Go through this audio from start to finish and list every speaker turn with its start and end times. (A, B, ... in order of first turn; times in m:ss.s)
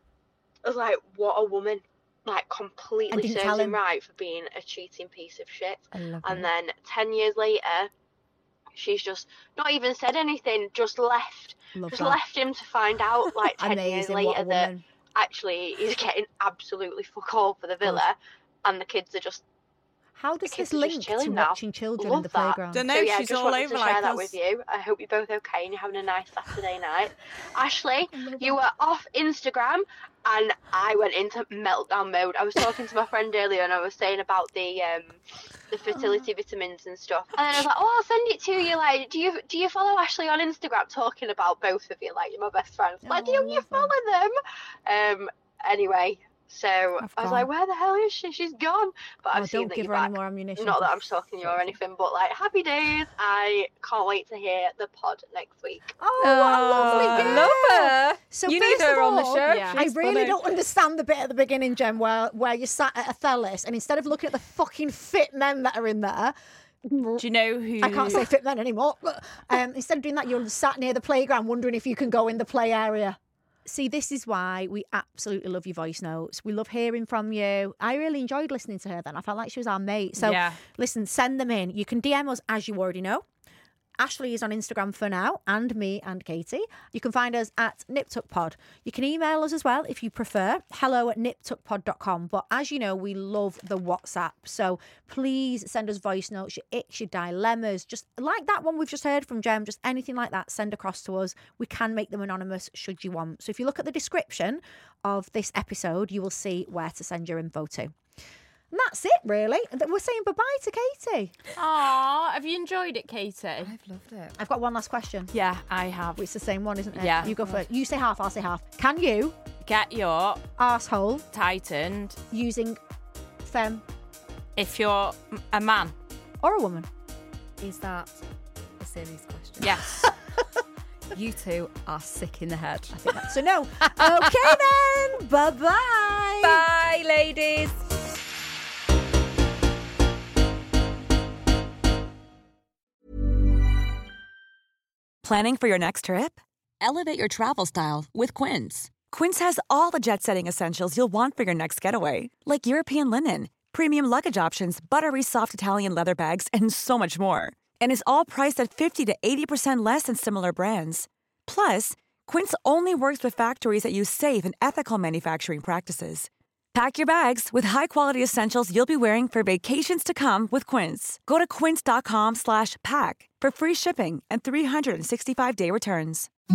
0:00.6-0:07.9 A
0:03.1-0:03.8 B
0:05.9-0:06.5 C
0:08.7-0:19.4 A
0:11.8-0:12.2 B
0:13.6-0:14.8 B
0:20.2-0:22.8 B
0:20.4-0:35.2 A
0:22.7-0:24.4 D
0:28.2-0:28.6 B
0:35.7-0:44.3 A
0:43.0-0:43.9 B
0:44.8-0:55.9 A
0:47.0-0:47.5 C
0:49.3-0:51.8 B
0:56.0-1:07.2 B
0:56.2-1:00.4 C
0:56.7-0:57.5 D
0:59.5-0:59.8 D
1:07.2-1:08.3 D
1:07.8-1:23.2 B
1:20.2-1:20.6 D
1:24.0-1:47.9 B
1:48.7-1:51.4 B
1:51.6-1:53.7 D
1:53.6-1:54.4 C
1:54.4-1:55.3 B
1:55.3-1:56.2 D
1:56.2-1:59.4 B
1:56.9-1:57.4 D
1:57.2-1:57.6 C
1:59.6-2:00.4 D
2:00.6-2:01.2 B
2:01.3-2:02.2 D
2:02.3-2:02.8 B
2:03.4-2:03.8 B
2:04.6-2:05.9 D
2:06.4-2:06.9 B
2:07.6-2:08.2 C
2:08.8-2:09.8 C
2:09.6-2:10.1 D
2:11.1-2:13.0 C
2:12.9-2:16.6 B
2:14.0-2:14.5 C
2:16.4-2:17.8 C
2:25.2-2:26.4 E
2:27.7-2:56.3 E